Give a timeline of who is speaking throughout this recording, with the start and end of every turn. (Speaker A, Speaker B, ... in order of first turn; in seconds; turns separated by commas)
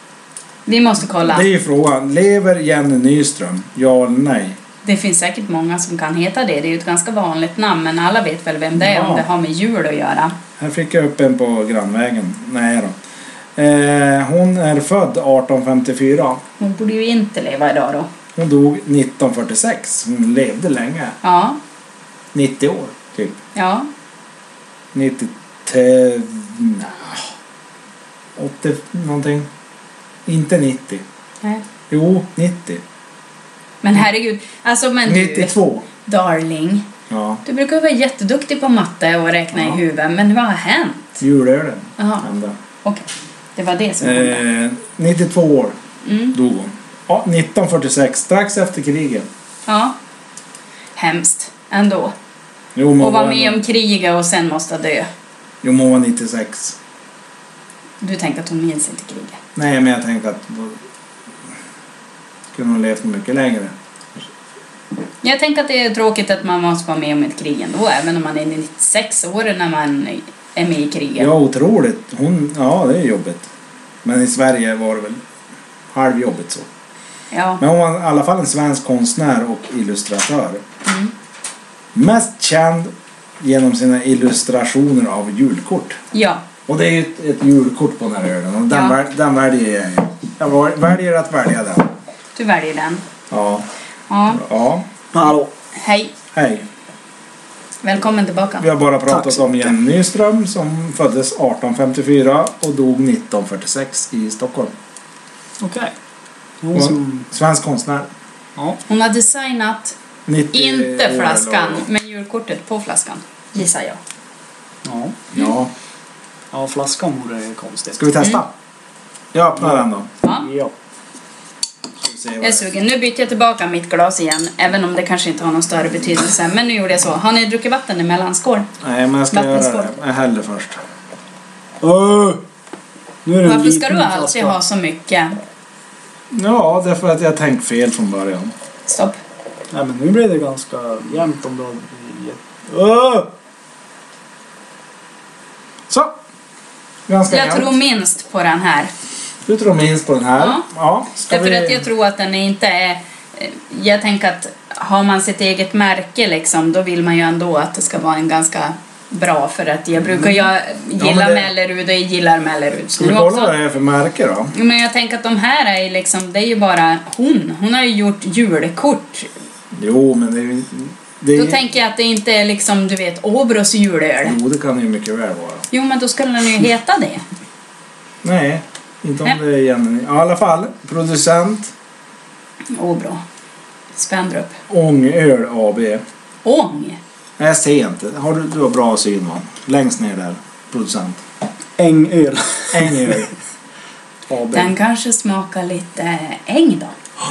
Speaker A: 0.7-1.5, Speaker B: 1.3-4.6, Speaker A: 4.8-10.4, Speaker B: 8.8-9.3, Speaker B: 10.6-12.9, Speaker B: 13.6-16.4, Speaker A: 16.6-18.1, Speaker B: 18.4-21.2, Speaker A: 21.2-21.6, Speaker B: 22.3-23.4, Speaker A: 23.6-23.9, Speaker B: 24.9-27.3, Speaker B: 28.4-29.5, Speaker B: 30.3-31.0, Speaker B: 31.9-32.8, Speaker A: 33.8-35.5, Speaker B: 35.1-35.9, Speaker A: 36.0-36.9, Speaker B: 37.1-37.4, Speaker A: 37.5-41.2, Speaker B: 39.5-39.8, Speaker B: 41.2-42.5, Speaker A: 42.0-42.3, Speaker A: 42.9-44.4, Speaker B: 44.0-45.8, Speaker A: 46.0-46.4, Speaker B: 46.3-49.3, Speaker A: 49.7-50.0, Speaker A: 51.0-52.1, Speaker B: 52.8-53.6, Speaker A: 53.0-55.1, Speaker B: 55.6-56.8, Speaker A: 58.0-59.4, Speaker B: 59.5-60.8, Speaker B: 62.5-64.3, Speaker A: 65.2-71.3, Speaker B: 71.2-73.5, Speaker B: 74.0-75.2, Speaker B: 75.9-76.7, Speaker A: 77.3-77.6, Speaker B: 77.6-80.6, Speaker A: 80.9-81.1, Speaker B: 81.9-86.0, Speaker A: 86.1-86.4, Speaker B: 86.7-91.9, Speaker A: 88.7-89.0, Speaker A: 92.4-93.0, Speaker B: 93.3-93.7, Speaker A: 94.1-94.4, Speaker B: 94.3-94.9, Speaker C: 95.1-95.5, Speaker A: 95.8-96.1, Speaker B: 96.3-96.7, Speaker A: 97.8-98.7, Speaker B: 98.6-104.7, Speaker C: 99.1-99.8, Speaker C: 105.6-105.9, Speaker C: 106.6-107.3, Speaker B: 106.7-108.1, Speaker A: 108.9-110.0, Speaker B: 110.3-111.9, Speaker A: 110.5-114.0, Speaker C: 114.8-115.2, Speaker B: 115.3-115.7, Speaker C: 116.5-118.0, Speaker B: 118.0-118.5, Speaker B: 119.3-120.1, Speaker C: 119.6-120.7, Speaker B: 122.0-122.6, Speaker A: 122.4-128.7, Speaker B: 128.8-130.8, Speaker A: 129.3-129.9, Speaker C: 131.8-132.4, Speaker C: 133.2-134.6, Speaker A: 133.4-135.4, Speaker B: 136.3-138.5, Speaker A: 138.9-139.2, Speaker C: 139.7-143.3, Speaker B: 145.9-146.2, Speaker B: 147.1-147.8, Speaker A: 147.3-148.9, Speaker B: 149.5-151.9, Speaker A: 150.4-150.6, Speaker A: 151.3-163.5, Speaker B: 160.0-161.5, Speaker B: 163.0-164.5, Speaker A: 164.5-169.3, Speaker B: 169.7-171.6, Speaker A: 171.3-174.4, Speaker B: 174.2-175.7, Speaker A: 175.7-177.2, Speaker B: 178.2-181.7, Speaker A: 182.7-183.2, Speaker A: 183.9-184.6, Speaker B: 184.7-186.0, Speaker A: 186.4-187.0, Speaker B: 187.4-191.2, Speaker C: 191.8-193.1, Speaker B: 192.7-193.3, Speaker C: 194.3-194.7, Speaker A: 194.5-196.9